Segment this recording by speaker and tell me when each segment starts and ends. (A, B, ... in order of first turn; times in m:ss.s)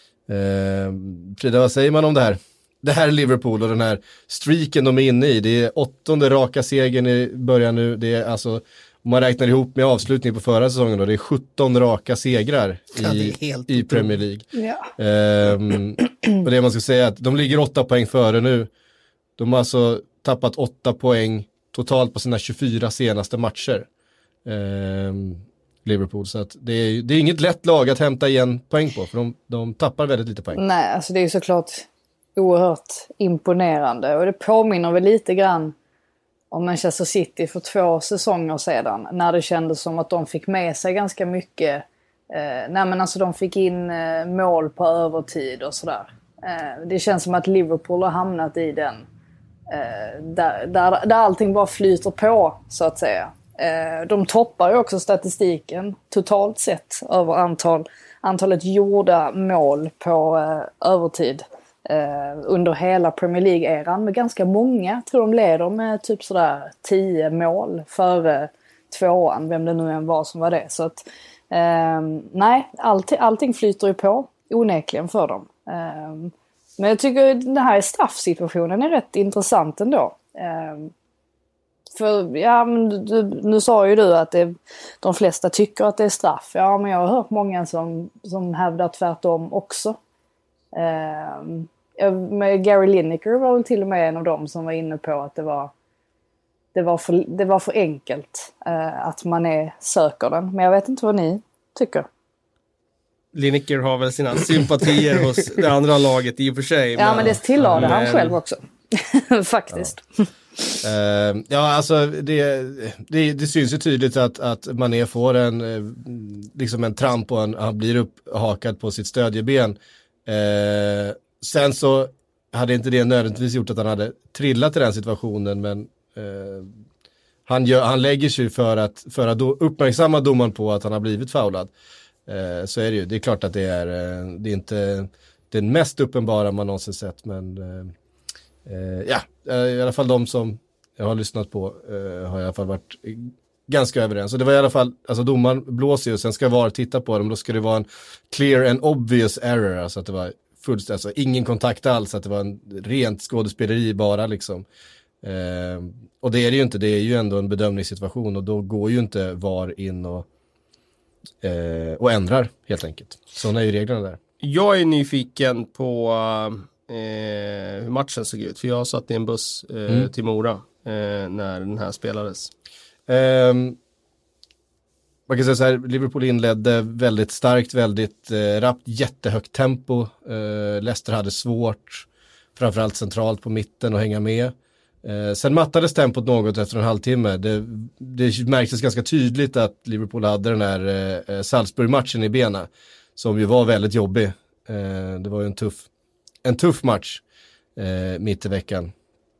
0:00.3-0:18.7 A
0:13.0-0:14.2 B
0:14.5-0:14.9 C
0:19.4-0:23.9 A
0:24.4-0:30.6 A
0:30.5-0:35.7 C
0:36.5-0:49.0 C
0:49.7-1:20.9 C
1:22.0-1:30.0 C
1:30.7-1:35.7 C
1:36.7-1:42.1 C
1:43.3-1:48.4 B
1:47.0-1:50.8 C
1:47.6-1:47.9 A
1:50.8-2:06.7 A
2:07.4-2:11.7 A
2:12.3-2:17.9 A
2:18.6-2:34.6 A
2:35.2-2:40.2 A
2:41.4-2:44.2 A
2:44.4-2:52.5 B
2:53.1-2:53.8 A
2:55.3-3:15.8 A
3:16.4-3:17.2 A
3:17.8-3:18.9 A